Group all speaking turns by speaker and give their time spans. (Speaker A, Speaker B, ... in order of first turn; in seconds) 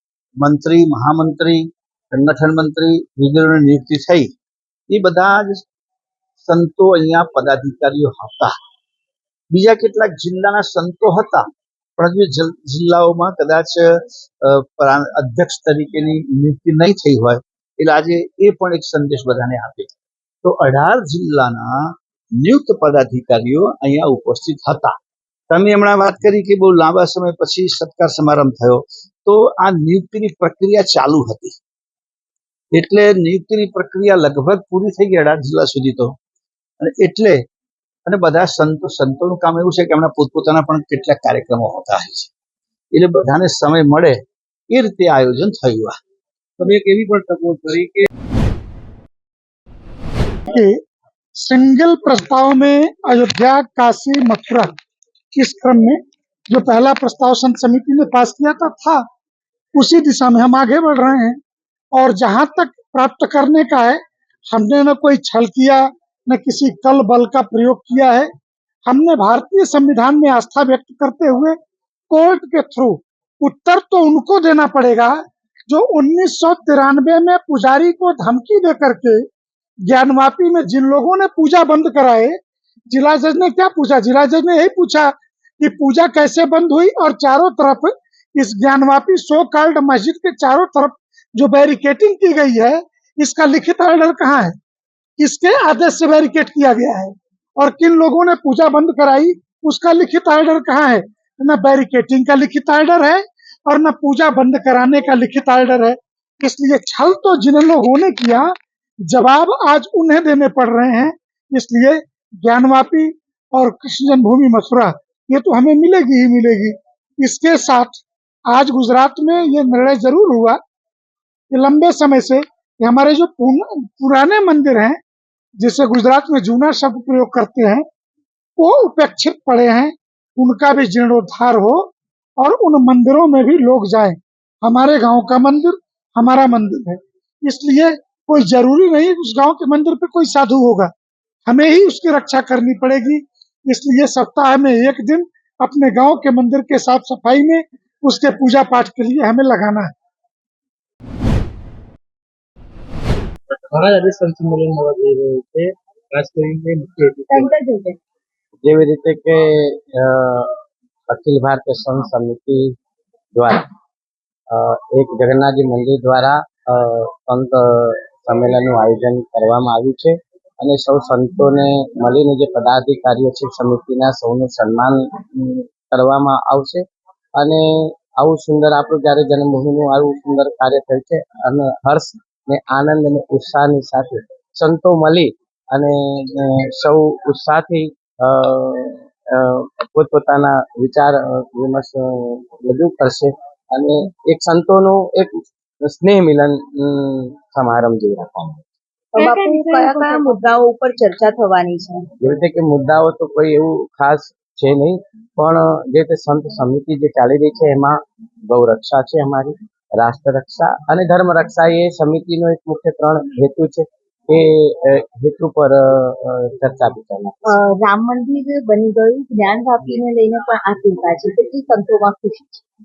Speaker A: 0.4-4.3, 4.9-5.6, 6.4-8.5, 9.5-11.4, 12.0-19.9, 20.4-24.9, 25.5-31.5, 32.7-36.1, 36.8-37.4, 38.0-42.3, 42.9-44.2, 44.7-45.9
Speaker B: 46.6-48.1, 153.8-154.4, 156.1-157.0
Speaker C: 50.5-50.8, 51.4-54.7, 55.3-59.0, 59.8-61.4, 61.9-68.3, 68.9-71.5, 72.1-79.2, 79.9-82.4, 82.9-94.5, 95.2-108.5, 109.1-120.6, 121.5-125.0, 125.6-127.8, 128.6-140.9, 141.4-149.9
Speaker D: 157.3-158.0, 199.1-202.1, 217.4-222.6
Speaker E: 158.6-162.8, 163.3-163.7, 164.5-176.8, 177.4-198.6, 202.2-217.5